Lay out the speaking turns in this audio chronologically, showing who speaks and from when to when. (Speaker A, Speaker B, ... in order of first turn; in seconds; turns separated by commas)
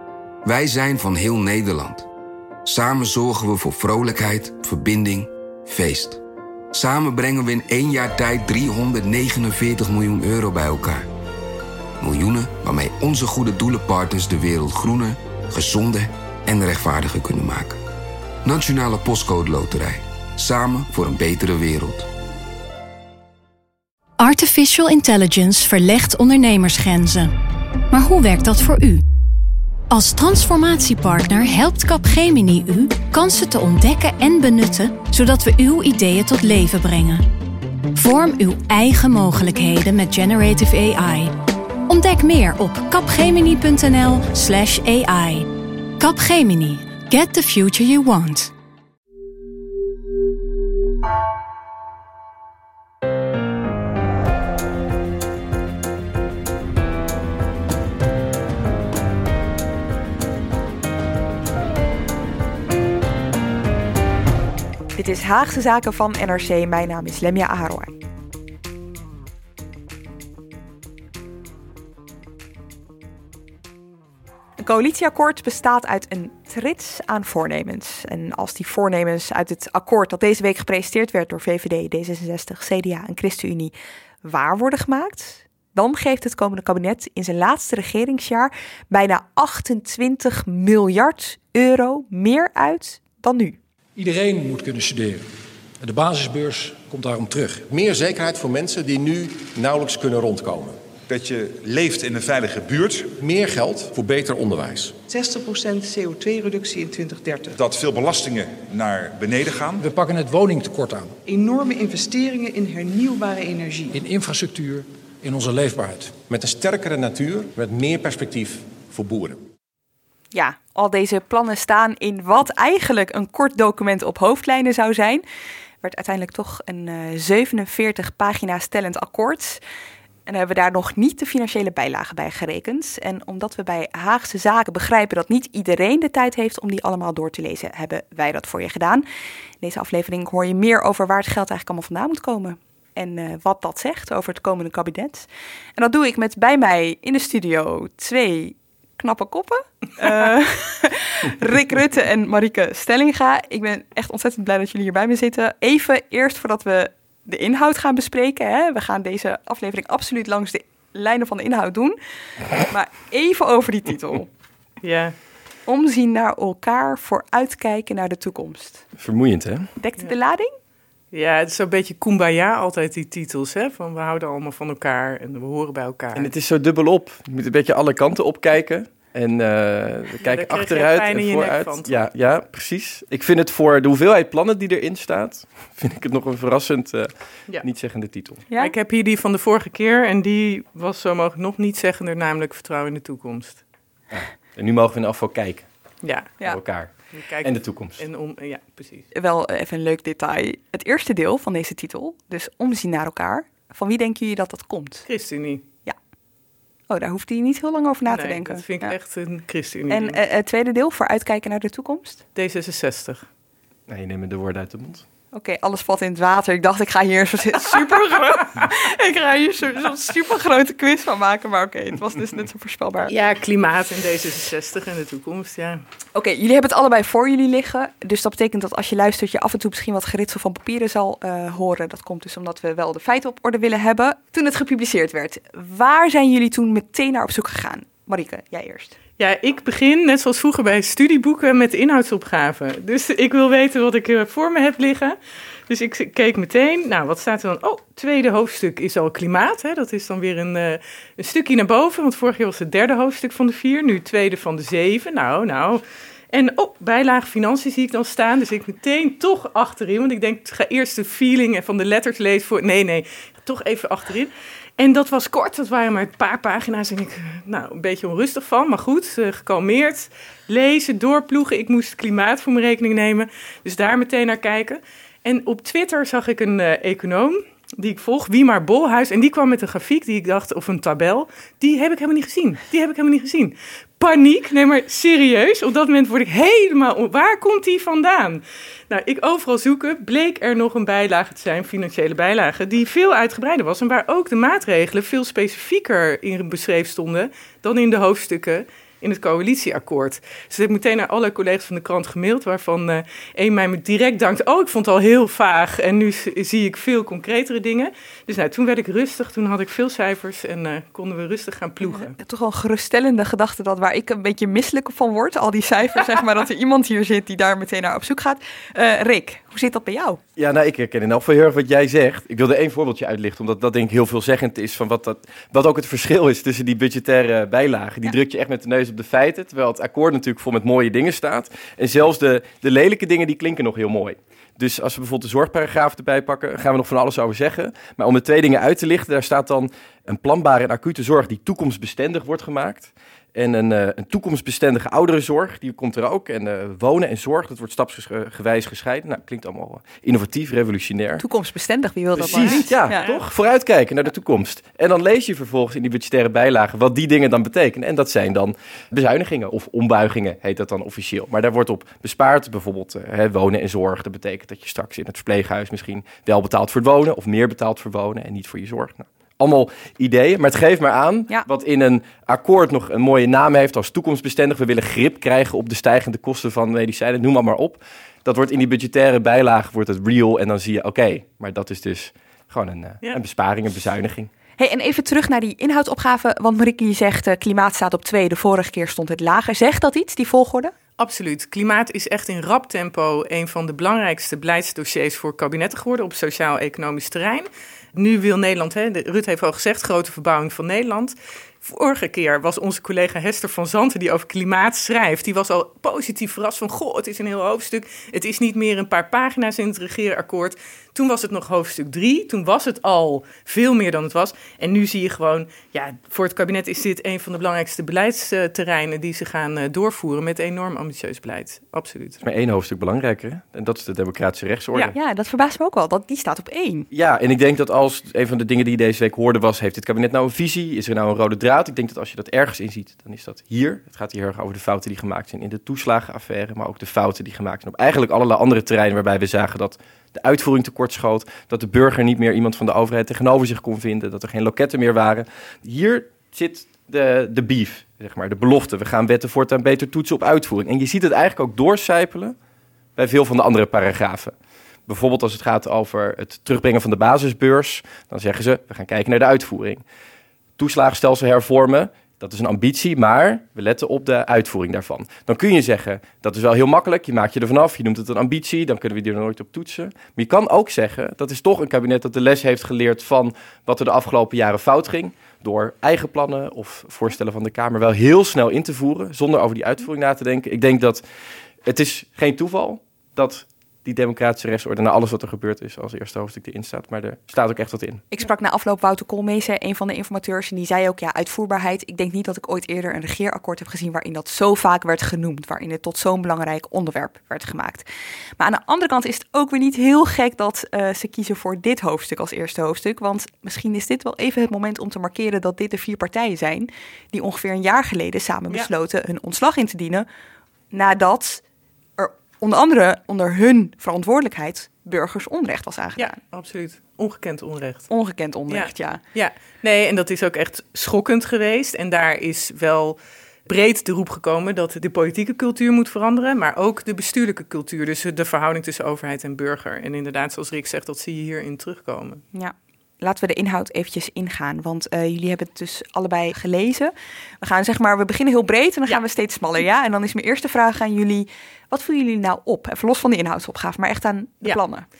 Speaker A: 0.4-2.1, Speaker A: 2.6-6.2, Speaker A: 6.7-11.1, Speaker A: 12.0-17.8, Speaker A: 18.4-22.1, Speaker B: 24.2-27.3, Speaker B: 27.9-29.0, Speaker B: 29.9-37.2, Speaker B: 37.9-41.4, Speaker B: 41.9-48.5, Speaker C: 64.9-68.0, Speaker C: 74.6-93.6, Speaker D: 94.0-95.2, Speaker D: 95.8-97.7, Speaker E: 97.7-100.8, Speaker F: 101.1-103.1, Speaker E: 103.2-104.9, Speaker G: 105.1-107.5, Speaker F: 107.5-109.8, Speaker D: 109.8-111.2, Speaker G: 111.2-113.9, Speaker D: 113.9-116.2, Speaker E: 116.3-119.4, Speaker C: 120.3-125.2, Speaker C: 125.8-129.6, Speaker C: 130.3-139.1, Speaker C: 139.6-162.0, Speaker C: 162.5-164.3, Speaker H: 164.8-165.1, Speaker C: 165.7-168.8, Speaker I: 169.0-169.7, Speaker C: 169.8-170.5, Speaker H: 171.1-176.3, Speaker I: 176.1-188.4, Speaker H: 180.2-182.0, Speaker H: 188.5-193.6, Speaker I: 194.1-195.7, Speaker H: 196.0-196.3, Speaker I: 196.4-198.0, Speaker H: 197.1-199.1, Speaker C: 199.1-205.1, Speaker H: 205.1-205.6, Speaker C: 206.9-208.9, Speaker H: 208.1-210.2, Speaker C: 209.9-212.2, Speaker H: 212.3-213.2, Speaker I: 213.9-215.1, Speaker C: 215.3-223.1, Speaker H: 217.8-218.7, Speaker H: 223.1-225.8, Speaker C: 226.1-239.0, Speaker H: 239.2-245.2, Speaker H: 245.7-312.1, Speaker C: 311.8-320.2, Speaker I: 320.4-351.2, Speaker C: 351.2-353.1, Speaker I: 352.1-384.3, Speaker H: 352.2-353.2, Speaker C: 384.6-390.7, Speaker H: 391.0-422.2, Speaker I: 422.2-424.9, Speaker C: 424.9-426.9, Speaker I: 426.9-452.3, Speaker I: 452.9-454.3, Speaker I: 454.9-459.8, Speaker I: 460.6-481.0, Speaker I: 481.6-488.0, Speaker C: 488.1-497.9, Speaker C: 498.4-510.1, Speaker C: 510.7-511.4, Speaker C: 512.0-516.1, Speaker H: 516.0-517.9, Speaker C: 517.9-519.0, Speaker H: 518.5-532.2, Speaker C: 532.3-544.9